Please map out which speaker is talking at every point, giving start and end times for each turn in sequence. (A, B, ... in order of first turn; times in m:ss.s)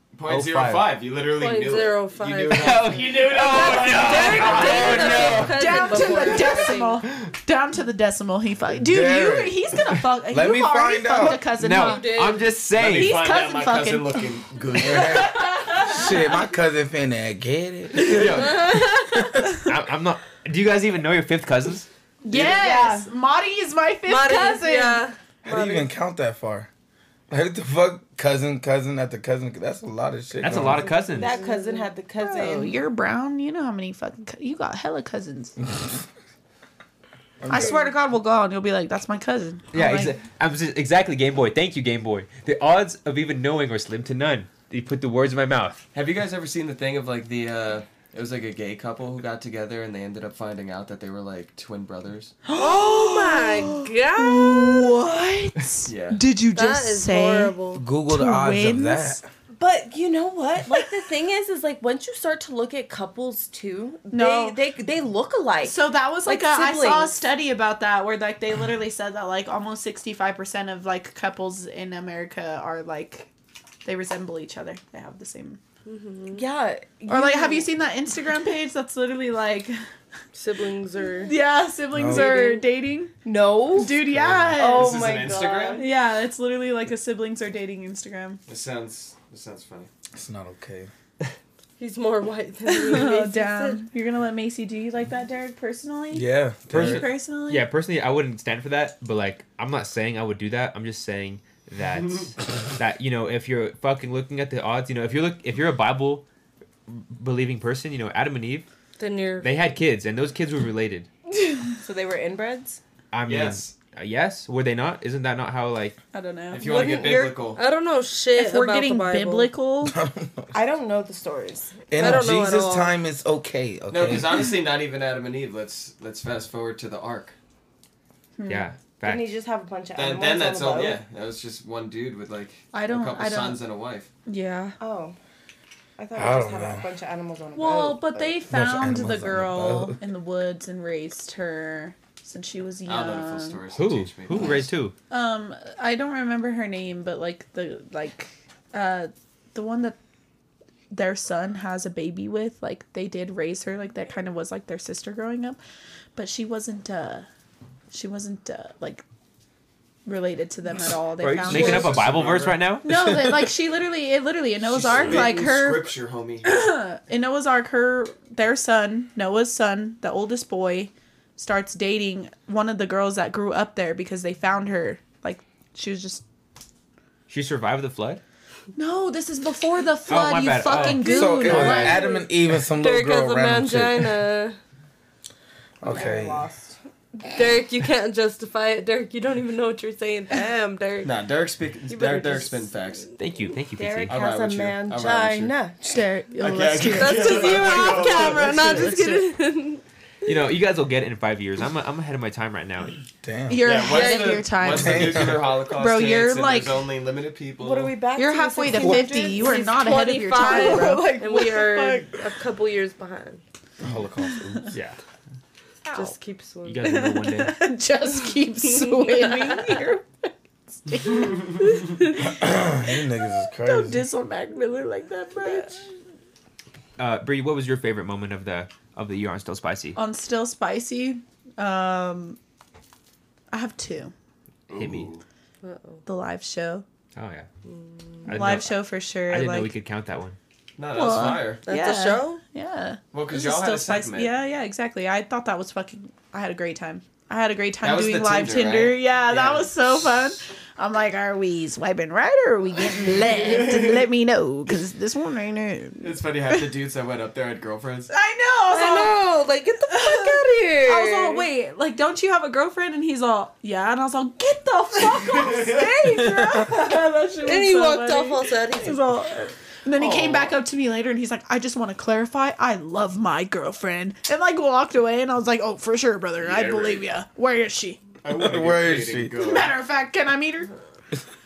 0:00.1-0:05.5 A
0:00.2-0:01.0 B
0:01.2-0:07.0 C
0:02.5-0:06.2 B
0:05.4-0:16.2 D
0:08.7-0:09.6 E
0:10.3-0:11.5 E
0:11.6-0:13.3 B
0:11.7-0:12.5 C
0:12.7-0:15.4 A
0:14.8-0:19.4 E
0:18.1-0:18.6 A
0:18.2-0:18.5 B
0:18.3-0:19.3 C
0:19.6-0:21.9 B
0:22.2-0:25.0 D
0:22.3-0:23.1 F
0:24.1-0:25.8 C
0:25.4-0:26.7 E
0:27.3-0:30.9 E
0:30.4-0:31.4 B
0:30.8-0:31.9 C
0:31.1-0:32.8 F
0:32.2-0:35.6 D
0:37.4-0:37.8 E
0:37.5-0:40.1 D
0:39.7-0:45.8 B
0:45.9-0:52.4 A
0:52.4-0:57.5 D
0:52.5-0:54.9 C
0:55.8-0:56.2 A
0:56.5-0:57.8 C
0:57.7-0:59.3 E
0:58.1-0:59.2 D
0:59.6-1:07.1 F
1:04.1-1:04.6 D
1:05.6-1:13.3 D
1:13.8-1:15.6 D
1:15.8-1:16.4 C
1:16.3-1:17.7 F
1:17.1-1:19.7 D
1:20.3-1:21.3 C
1:21.2-1:23.1 D
1:21.9-1:22.4 E
1:22.1-1:22.5 C
1:22.1-1:22.6 F
1:23.2-1:24.0 F
1:23.7-1:24.9 D
1:24.5-1:25.9 F
1:24.7-1:25.8 A
1:25.7-1:28.4 D
1:28.5-1:29.9 A
1:30.1-1:30.9 E
1:31.8-1:33.8 C
1:32.7-1:37.6 D
1:36.1-1:37.1 E
1:36.7-1:46.2 B
1:46.9-1:48.7 B
1:49.0-1:49.5 C
1:49.4-1:51.1 B
1:51.6-1:52.8 F
1:53.1-1:56.0 B
1:53.2-1:53.8 A
1:56.1-1:57.0 D
1:56.5-1:57.6 A
1:56.6-1:57.3 F
1:57.2-1:59.5 C
1:58.3-2:00.0 D
1:59.8-2:00.6 E
2:00.5-2:01.8 F
2:01.9-2:04.5 E
2:01.9-2:03.0 C
2:03.9-2:07.3 A
2:08.4-2:08.7 D
2:08.5-2:09.3 B
2:09.0-2:11.0 F
2:09.9-2:14.1 A
2:12.7-2:13.6 D
2:14.3-2:14.7 D
2:14.8-2:15.2 F
2:16.0-2:18.4 F
2:16.1-2:16.8 E
2:17.5-2:23.6 D
2:18.5-2:20.0 E
2:22.8-2:24.7 A
2:23.7-2:24.9 B
2:25.1-2:30.0 D
2:30.9-2:35.6 D
2:36.2-2:37.3 D
2:37.9-2:39.0 D
2:40.0-2:42.0 D
2:41.2-2:43.5 B
2:41.4-2:42.7 A
2:42.8-2:56.2 D
2:44.6-2:46.5 A
2:57.3-2:58.2 B
2:58.8-3:02.2 D
3:00.1-3:02.0 B
3:00.7-3:04.2 E
3:02.7-3:04.6 C
3:05.8-3:06.4 E
3:05.8-3:06.8 F
3:07.3-3:11.2 C
3:11.0-3:13.1 A
3:11.9-3:12.7 C
3:13.2-3:14.2 B
3:13.8-3:16.1 F
3:14.1-3:15.5 A
3:15.9-3:19.3 D
3:16.4-3:18.9 A
3:16.8-3:19.8 C
3:20.2-3:23.0 B
3:23.2-3:23.6 E
3:23.5-3:26.8 D
3:23.6-3:27.9 A
3:23.9-3:24.4 C
3:24.7-3:25.4 E
3:27.6-3:32.2 F
3:28.2-3:31.1 D
3:29.3-3:33.4 C
3:33.8-3:34.7 E
3:34.7-3:35.0 B
3:35.8-3:36.2 D
3:35.9-3:36.9 C
3:36.6-3:37.6 B
3:36.8-3:42.2 D
3:38.9-3:39.8 C
3:42.2-3:44.0 E
3:43.6-3:45.9 D
3:47.0-3:50.0 B
3:50.0-3:52.4 D
3:53.5-3:54.1 D
3:54.7-3:55.2 A
3:54.8-3:55.1 B
3:55.6-3:56.0 C
3:56.0-3:56.8 D
3:57.1-3:57.5 B
3:57.6-3:58.3 C
3:58.3-4:00.4 B
3:58.3-3:59.7 D
4:00.8-4:01.6 A
4:00.9-4:16.7 D
4:01.6-4:02.4 C
4:03.1-4:04.4 A
4:07.8-4:09.7 A
4:16.0-4:18.1 A
4:18.1-4:19.2 D
4:18.7-4:21.5 C
4:19.9-4:38.0 D
4:25.4-4:25.9 A
4:27.4-4:29.1 C
4:29.9-4:30.5 A
4:36.4-4:37.0 A
4:38.2-4:39.8 A
4:38.3-4:39.3 E
4:39.4-4:40.7 D